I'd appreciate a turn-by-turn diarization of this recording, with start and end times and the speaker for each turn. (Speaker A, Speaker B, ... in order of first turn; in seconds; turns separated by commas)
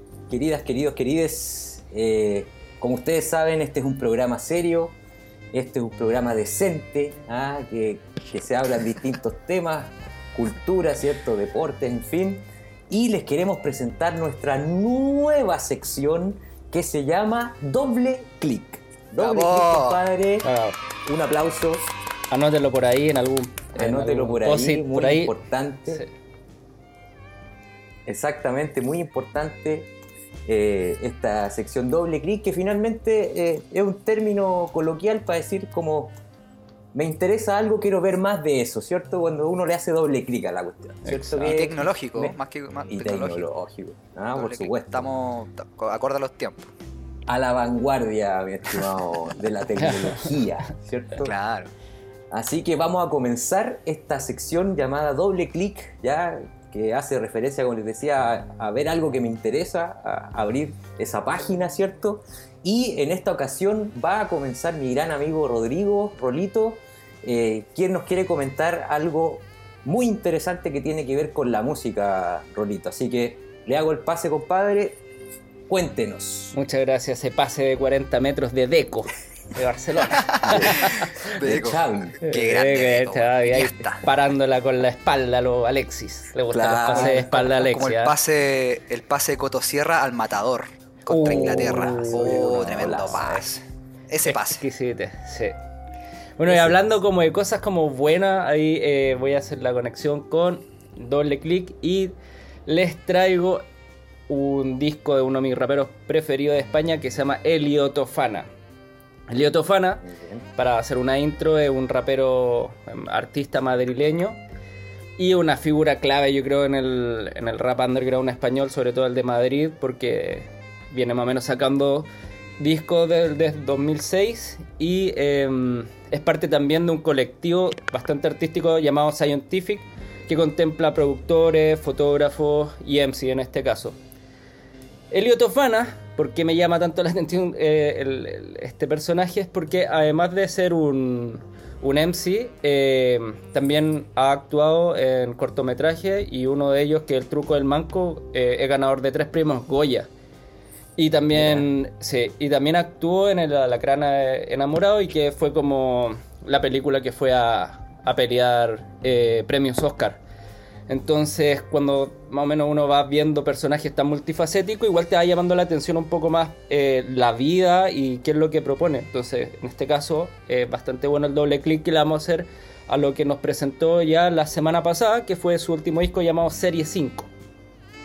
Speaker A: 0.3-5.0, Speaker A: 5.5-20.5, Speaker B: 19.2-20.0, Speaker C: 20.4-20.8, Speaker A: 21.0-21.9, Speaker C: 22.3-25.3, Speaker A: 23.7-26.0, Speaker A: 28.1-29.9, Speaker A: 30.4-36.1, Speaker A: 36.9-42.4, Speaker C: 41.0-41.5, Speaker B: 41.4-43.5, Speaker A: 42.9-45.1, Speaker B: 44.3-46.7, Speaker A: 47.3-51.3, Speaker C: 49.8-50.4, Speaker B: 51.2-51.7, Speaker A: 52.3-75.0, Speaker A: 75.7-76.5, Speaker C: 76.5-81.2, Speaker B: 80.3-84.0, Speaker A: 80.4-82.2, Speaker C: 82.2-88.1, Speaker A: 86.5-87.3, Speaker B: 86.9-94.6, Speaker C: 91.1-93.0, Speaker A: 91.2-93.5, Speaker C: 94.2-95.5, Speaker C: 96.4-102.1, Speaker A: 96.5-96.8, Speaker C: 102.7-103.7, Speaker C: 104.3-108.5, Speaker C: 109.3-110.0, Speaker A: 110.0-110.5, Speaker C: 110.5-114.4, Speaker C: 115.2-134.0, Speaker C: 135.1-150.1, Speaker C: 151.0-160.2, Speaker A: 151.3-151.7, Speaker C: 160.9-177.3